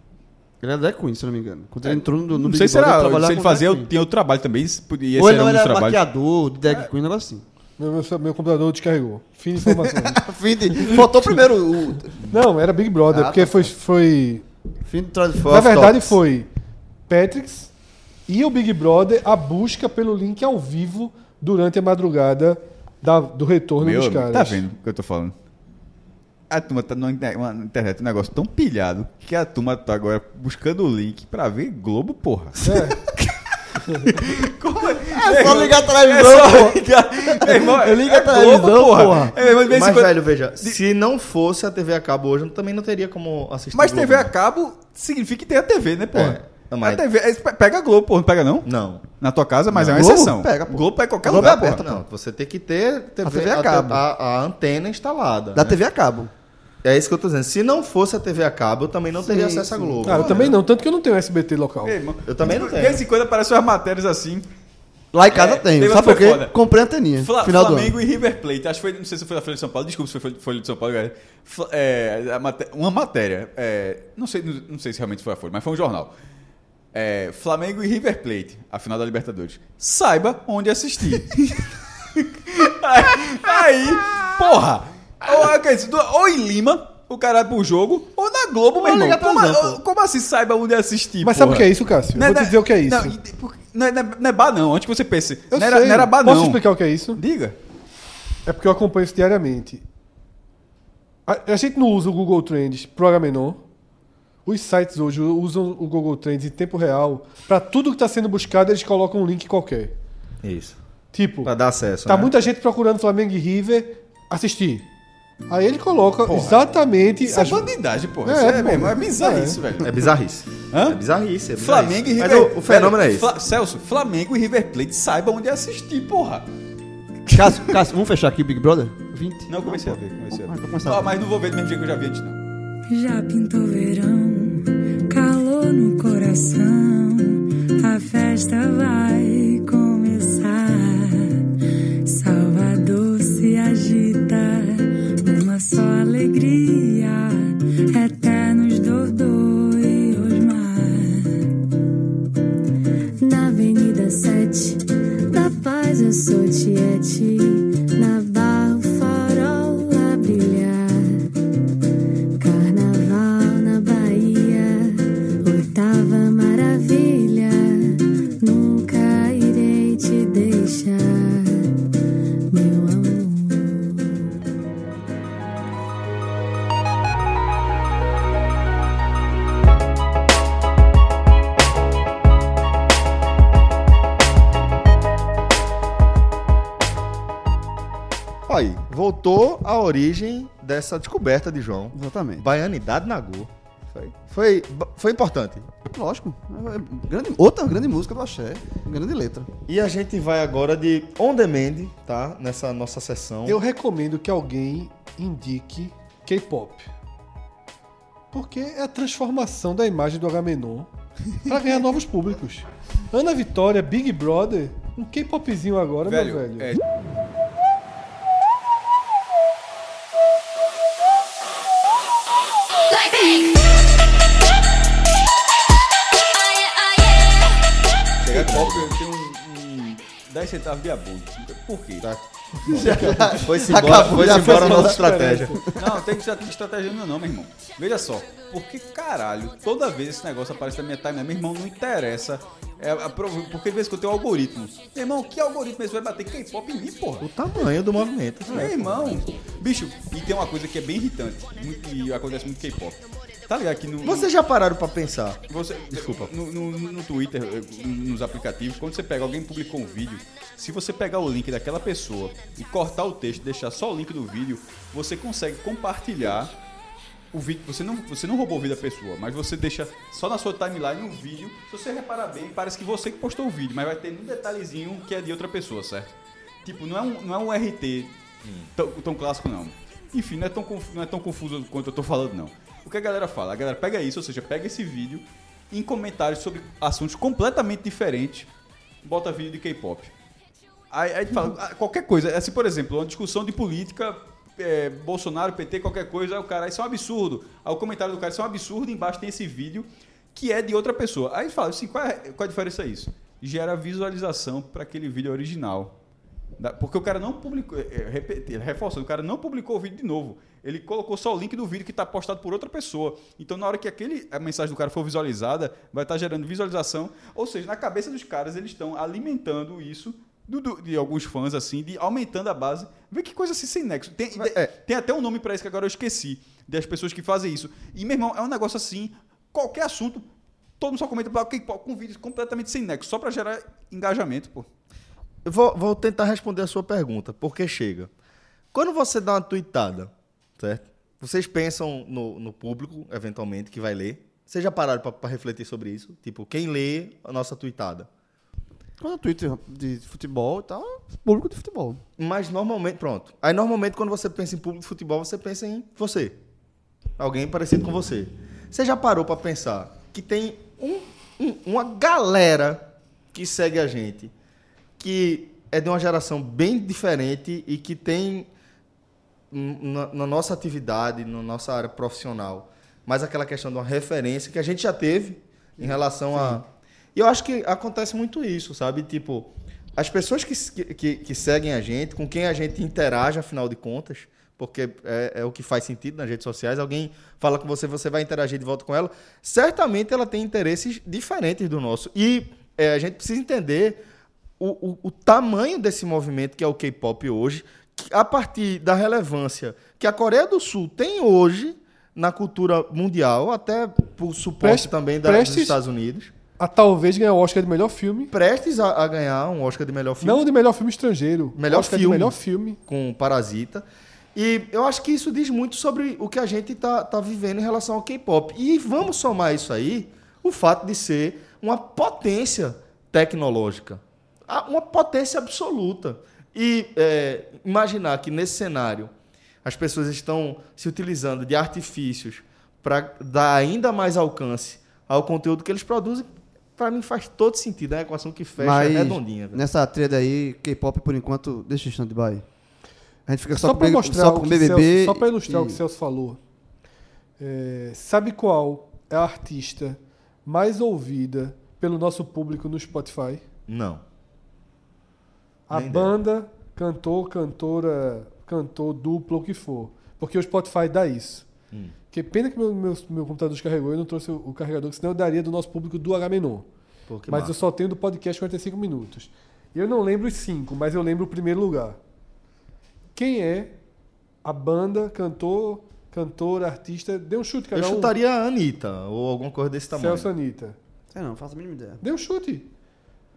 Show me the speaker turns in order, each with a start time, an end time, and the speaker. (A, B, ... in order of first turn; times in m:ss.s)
0:00.6-0:03.9 A
0:01.8-0:06.0 B
0:05.2-0:07.4 A
0:07.8-0:10.2 C
0:09.8-0:12.2 A
0:12.3-0:14.4 C
0:13.1-0:13.7 A
0:14.8-0:15.6 A
0:15.4-0:16.1 D
0:15.5-0:16.5 C
0:17.1-0:17.7 C
0:18.3-0:24.6 C
0:23.8-0:25.3 B
0:26.5-0:32.8 B
0:32.6-0:33.0 C
0:34.0-0:40.8 B
0:34.9-0:39.4 A
0:39.6-0:44.3 D
0:43.7-0:51.9 B
0:46.1-0:47.0 D
0:48.6-0:49.0 D
0:49.7-0:50.1 D
0:49.9-0:52.0 A
0:51.3-0:55.8 D
0:53.2-0:54.0 A
0:55.6-0:56.3 A
0:56.8-1:00.6 D
0:59.2-1:00.0 A
1:00.0-1:02.0 C
1:00.2-1:00.5 B
1:01.8-1:04.5 B
1:02.3-1:03.0 D
1:05.1-1:07.9 A
1:05.3-1:06.5 B
1:07.2-1:16.1 B
1:16.9-1:36.6 B
1:28.8-1:29.8 A
1:31.2-1:33.2 C
1:35.5-1:37.2 C
1:37.2-1:37.6 B
1:38.5-1:39.8 C
1:41.3-1:43.6 C
1:44.5-1:49.9 C
1:50.4-1:50.8 D
1:51.1-1:51.5 C
1:51.4-1:52.3 D
1:52.1-1:54.9 C
1:55.5-1:57.7 C
1:56.2-1:56.7 B
1:57.3-2:00.0 B
1:58.2-1:59.6 C
1:59.8-2:03.3 D
2:00.7-2:01.0 B
2:01.6-2:06.5 B
2:07.3-2:07.8 B
2:07.3-2:11.1 A
2:09.5-2:12.4 B
2:12.9-2:31.6 E
2:33.2-2:41.3 F
2:42.4-2:51.8 F
2:52.5-2:54.0 F
3:08.5-3:15.7 D
3:11.9-3:12.4 A
3:15.9-3:19.5 A
3:19.7-3:23.6 D
3:23.5-3:26.9 C
3:28.3-3:30.9 C
3:31.4-3:36.7 C
3:36.1-3:36.8 B
3:48.2-3:49.0 D
3:48.2-3:52.1 B
3:52.0-3:55.6 D
3:52.6-3:53.3 C
3:52.7-3:55.1 A
3:54.0-3:55.6 C
3:55.7-4:07.3 B
4:07.2-4:09.2 D
4:08.5-4:14.3 B
4:14.0-4:16.3 D
4:15.5-4:26.5 B
4:27.3-4:38.2 B
4:38.4-4:38.7 D
4:38.8-4:48.5 B
4:49.0-4:50.1 B
4:50.9-5:06.0 B
5:06.6-5:30.3 B
5:24.4-5:24.7 D
5:30.8-5:34.7 B
5:35.4-5:38.1 D
5:38.7-5:48.1 D
5:49.0-5:52.0 A
5:52.2-5:56.4 D
5:57.2-6:04.3 D
6:05.0-6:08.5 D
6:09.5-6:34.0 D
6:15.8-6:16.6 C
6:34.6-6:46.3 D
6:44.6-6:45.8 C
6:46.6-6:48.3 C
6:48.3-6:50.4 D
6:50.2-6:52.8 C
6:51.6-7:09.1 D
7:09.6-7:19.6 D
7:18.6-7:22.4 A
7:23.3-7:25.8 A
7:23.6-7:26.4 C
7:27.4-7:33.4 C
7:33.7-7:34.0 D
7:35.7-7:41.5 C
7:35.7-7:36.1 D
7:42.1-7:46.7 C
7:47.1-7:47.6 D
7:47.3-7:52.0 C
7:53.2-7:53.8 C
7:54.4-7:58.1 C
7:57.7-8:00.3 D
7:59.9-8:00.8 C
8:01.1-8:02.0 A
8:02.0-8:02.7 C